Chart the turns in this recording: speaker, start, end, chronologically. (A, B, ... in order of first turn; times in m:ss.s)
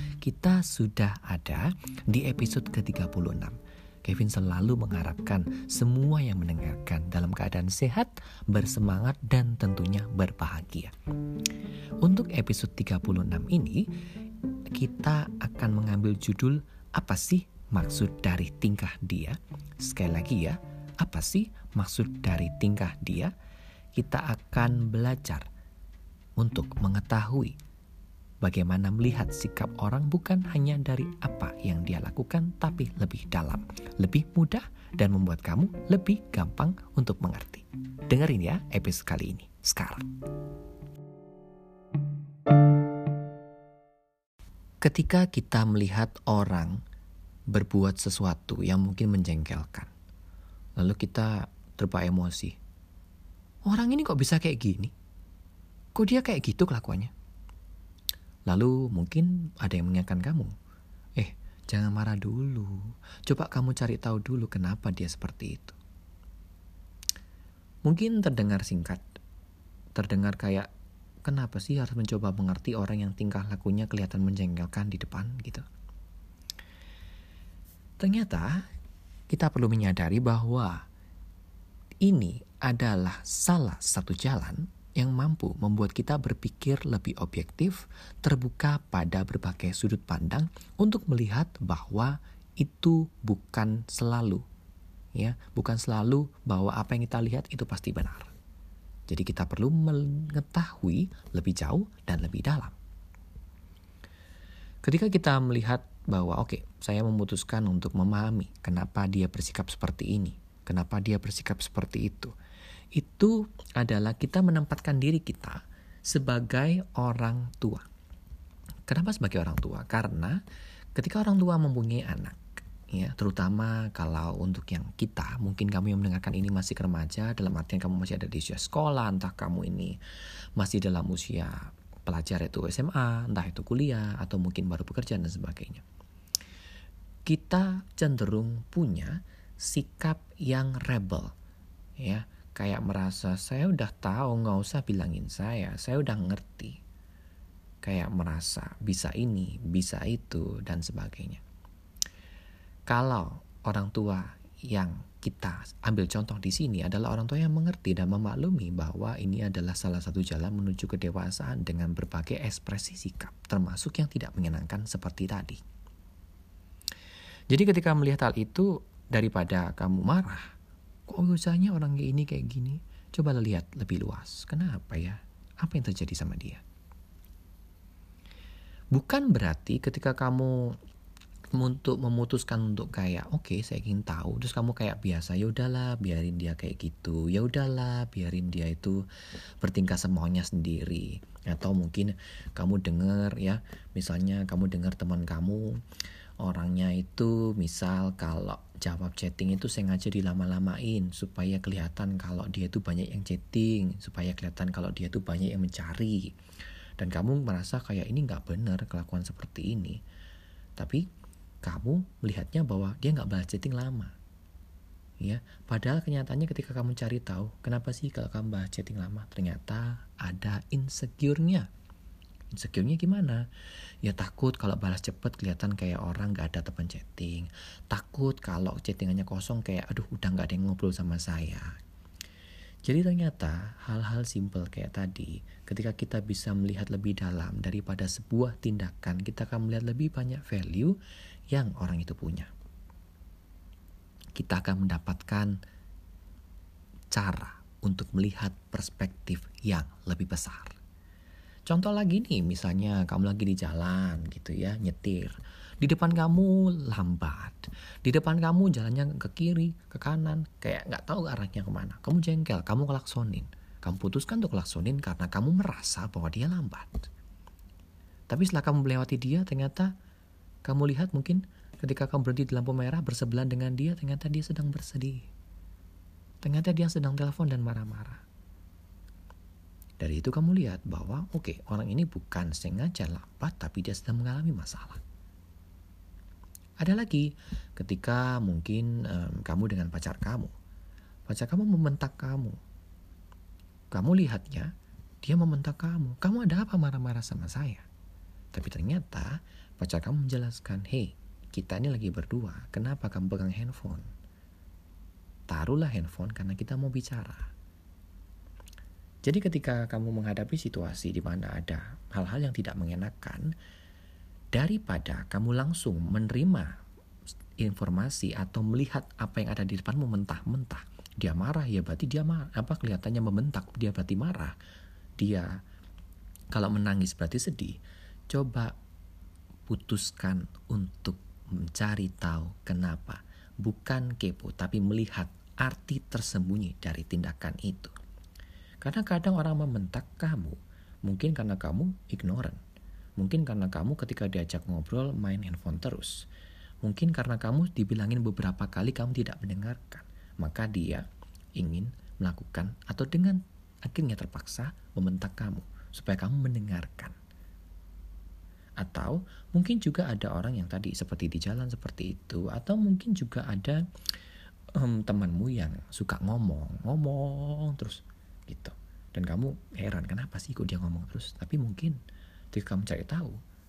0:00.2-0:10.9 A
0:12.0-0:13.9 A
0:14.7-0:23.3 A
0:24.0-0:25.5 A
0:26.4-0:27.6 A
0:28.4-0:40.1 A
0:44.8-0:46.8 A
0:47.5-0:49.9 A
0:50.8-0:52.6 A
0:53.7-0:54.9 A
0:56.0-0:57.1 A
0:58.5-1:00.5 A
1:01.2-1:05.8 A
1:07.8-1:09.0 A
1:10.0-1:10.7 A
1:11.2-1:15.6 A
1:18.0-1:18.6 A
1:19.3-1:20.8 A
1:22.0-1:34.4 A
1:35.2-1:38.3 A
1:39.1-1:42.8 A
1:44.8-1:52.3 A
1:53.0-1:57.9 A
1:58.9-2:00.4 A
2:01.0-2:02.4 A
2:02.9-2:10.0 A
2:10.6-2:15.8 A
2:17.3-2:21.3 A
2:22.0-2:26.8 A
2:27.8-2:31.4 A
2:32.9-2:45.6 A
2:47.5-2:50.5 A
2:51.1-2:56.6 A
2:58.9-3:00.8 A
3:01.6-3:09.0 A
3:09.6-3:15.8 A
3:16.4-3:26.3 A
3:27.0-3:30.0 A
3:30.8-3:31.0 A
3:31.6-3:34.1 A
3:35.2-3:41.7 A
3:42.5-3:43.4 A
3:44.0-3:51.7 A
3:52.8-4:01.0 A
4:01.5-4:02.5 A
4:04.4-4:05.6 A
4:07.1-4:10.8 A
4:11.7-4:27.0 A
4:28.3-4:29.9 A
4:30.6-4:35.3 A
4:36.4-4:38.2 A
4:40.0-4:45.0 A
4:46.8-4:50.5 A
4:51.3-4:52.6 A
4:53.9-4:54.7 A
4:55.2-4:57.9 A
4:58.5-5:04.1 A
5:05.5-5:07.5 A
5:09.2-5:13.5 A
5:14.5-5:16.7 A
5:17.6-5:24.5 A
5:25.2-5:25.5 A
5:26.5-5:27.8 A
5:28.3-5:28.7 A
5:29.7-5:37.9 A
5:38.8-5:42.6 A
5:43.2-5:46.2 A
5:46.8-5:51.1 A
5:51.6-5:57.2 A
5:58.8-6:03.8 A
6:04.8-6:12.0 A
6:12.5-6:13.4 A